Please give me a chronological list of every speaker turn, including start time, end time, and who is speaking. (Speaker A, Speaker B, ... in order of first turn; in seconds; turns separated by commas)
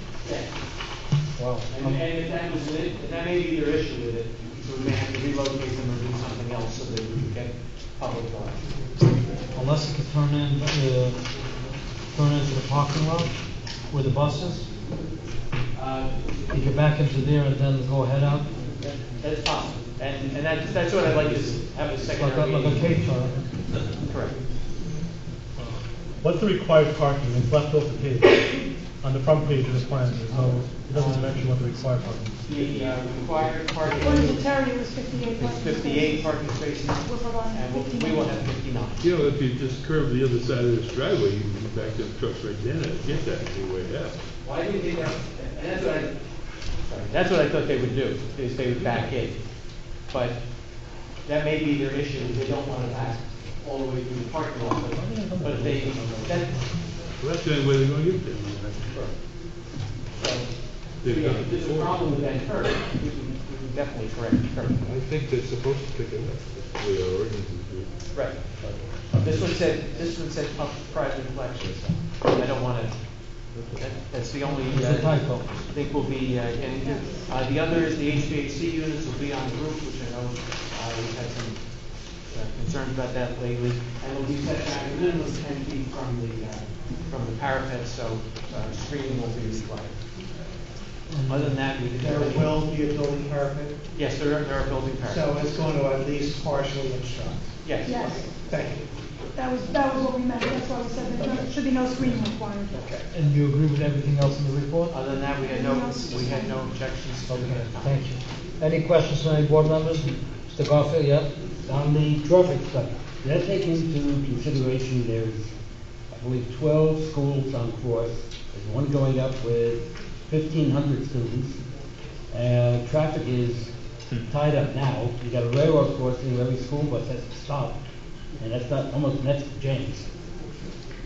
Speaker A: 0.2-0.5, Speaker B: 1.4-2.0, Speaker A: 1.7-8.7, Speaker B: 9.5-11.2, Speaker B: 12.1-13.3, Speaker B: 13.9-14.7, Speaker A: 15.7-16.2, Speaker B: 16.5-18.5, Speaker A: 18.8-23.0, Speaker B: 22.2-23.5, Speaker A: 24.0-24.4, Speaker C: 26.2-28.5, Speaker C: 29.0-32.6, Speaker A: 30.3-31.5, Speaker A: 32.4-34.6, Speaker D: 34.0-36.4, Speaker A: 35.2-39.1, Speaker D: 37.0-38.4, Speaker E: 39.0-44.2, Speaker A: 44.4-46.2, Speaker A: 46.8-49.4, Speaker A: 50.0-50.4, Speaker A: 51.2-56.7, Speaker C: 54.9-56.7, Speaker E: 57.2-58.9, Speaker A: 58.9-59.2, Speaker A: 60.1-64.8, Speaker E: 61.0-62.0, Speaker E: 64.8-67.9, Speaker A: 68.1-68.5, Speaker A: 69.1-90.0, Speaker B: 74.7-75.5, Speaker D: 76.7-77.3, Speaker B: 91.1-91.5, Speaker A: 91.2-92.6, Speaker F: 92.0-93.8, Speaker A: 93.9-95.2, Speaker F: 95.1-98.8, Speaker A: 97.6-98.3, Speaker D: 97.9-98.2, Speaker D: 99.3-102.8, Speaker F: 101.2-101.6, Speaker F: 102.7-103.1, Speaker B: 103.1-104.9, Speaker A: 104.9-108.0, Speaker D: 105.3-106.6, Speaker B: 107.3-111.3, Speaker G: 111.6-115.5, Speaker G: 116.1-121.6, Speaker G: 122.3-123.7, Speaker G: 124.3-127.8, Speaker G: 128.4-130.1